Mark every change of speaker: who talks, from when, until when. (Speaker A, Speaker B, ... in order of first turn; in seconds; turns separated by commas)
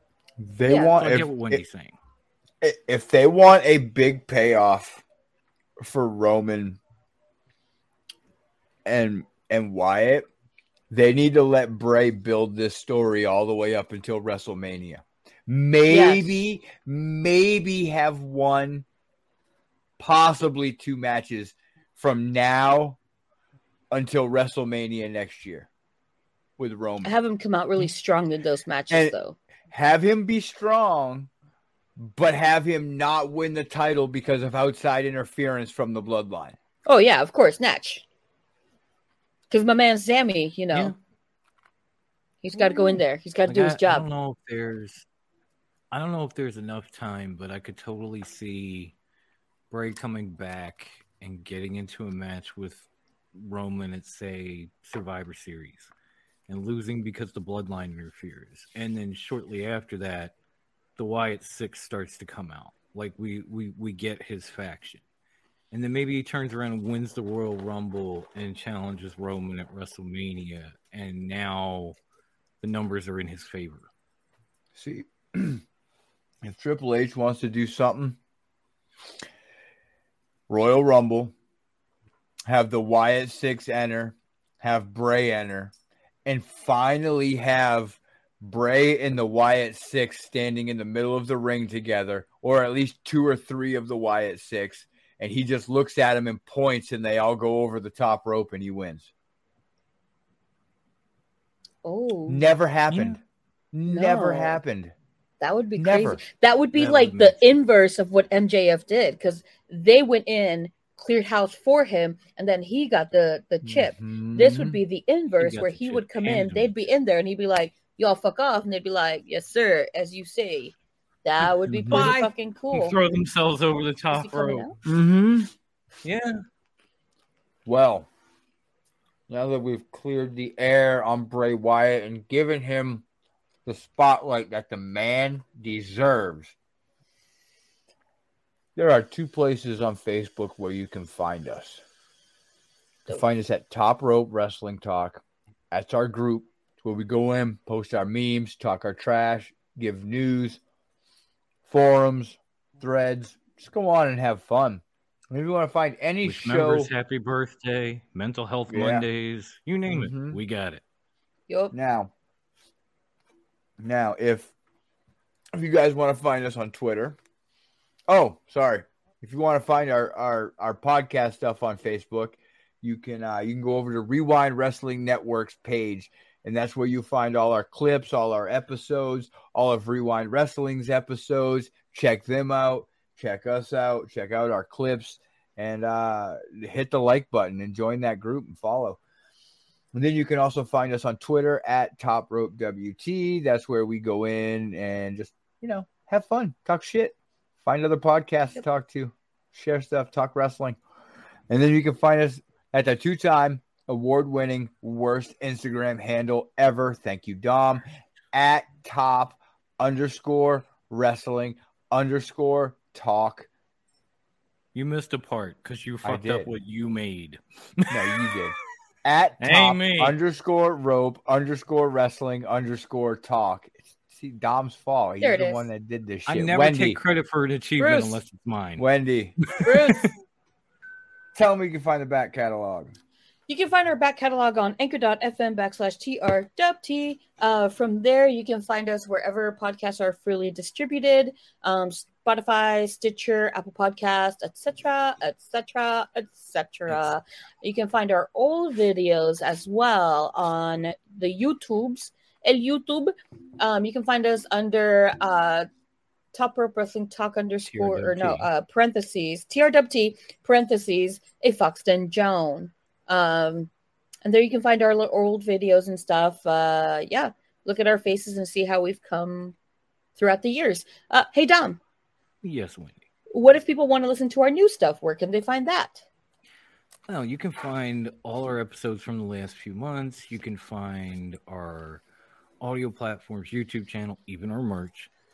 Speaker A: 0.4-1.6, Speaker B: 0.7-0.9, Speaker C: 0.9-2.0, Speaker A: 2.6-5.0, Speaker A: 5.8-6.8, Speaker A: 8.8-10.2, Speaker A: 10.9-18.9, Speaker B: 15.9-16.3, Speaker A: 20.0-23.0, Speaker A: 23.9-25.7, Speaker A: 26.6-27.1, Speaker B: 27.0-29.4, Speaker A: 29.7-31.3, Speaker A: 32.0-36.5, Speaker B: 36.9-38.0, Speaker B: 39.5-40.9, Speaker B: 42.4-44.0, Speaker C: 42.5-45.0, Speaker C: 45.9-48.9, Speaker C: 49.7-55.9, Speaker C: 56.5-60.4, Speaker C: 61.0-65.0, Speaker C: 65.7-72.0, Speaker C: 72.6-73.9, Speaker A: 74.7-75.6, Speaker A: 76.4-78.2, Speaker A: 80.5-81.3, Speaker A: 82.5-85.7, Speaker A: 86.2-99.1, Speaker B: 101.8-102.5, Speaker A: 102.3-103.2, Speaker C: 102.9-103.2, Speaker A: 103.7-104.9, Speaker B: 103.9-104.6, Speaker B: 105.4-123.0, Speaker A: 105.8-106.2, Speaker C: 106.7-107.4, Speaker A: 113.6-114.8, Speaker C: 115.4-116.7, Speaker A: 121.7-122.1, Speaker C: 121.9-124.7, Speaker B: 124.1-124.7, Speaker A: 124.8-125.5, Speaker C: 126.0-126.4, Speaker A: 127.6-128.1, Speaker A: 129.3-133.0, Speaker A: 133.6-136.5, Speaker A: 138.8-141.8, Speaker A: 143.1-150.6, Speaker A: 151.7-156.9, Speaker C: 156.2-160.8, Speaker A: 158.7-159.1, Speaker A: 159.9-160.4, Speaker B: 161.5-161.7, Speaker A: 161.7-162.1, Speaker A: 163.8-164.5, Speaker A: 165.5-167.2, Speaker A: 168.1-189.0, Speaker A: 189.9-200.8, Speaker A: 201.5-213.5, Speaker C: 214.7-218.4, Speaker A: 216.0-216.5, Speaker A: 217.9-227.0, Speaker C: 219.4-220.2, Speaker B: 225.2-225.7, Speaker C: 226.3-228.8, Speaker B: 227.8-228.2, Speaker A: 228.8-229.4, Speaker C: 229.4-230.1, Speaker B: 229.6-230.1, Speaker A: 231.3-232.9, Speaker B: 233.5-255.7, Speaker B: 256.3-263.7, Speaker C: 257.7-258.5, Speaker B: 264.2-269.6, Speaker B: 270.1-271.8, Speaker C: 272.4-273.1, Speaker B: 273.3-276.1, Speaker C: 277.1-282.0, Speaker C: 282.6-285.1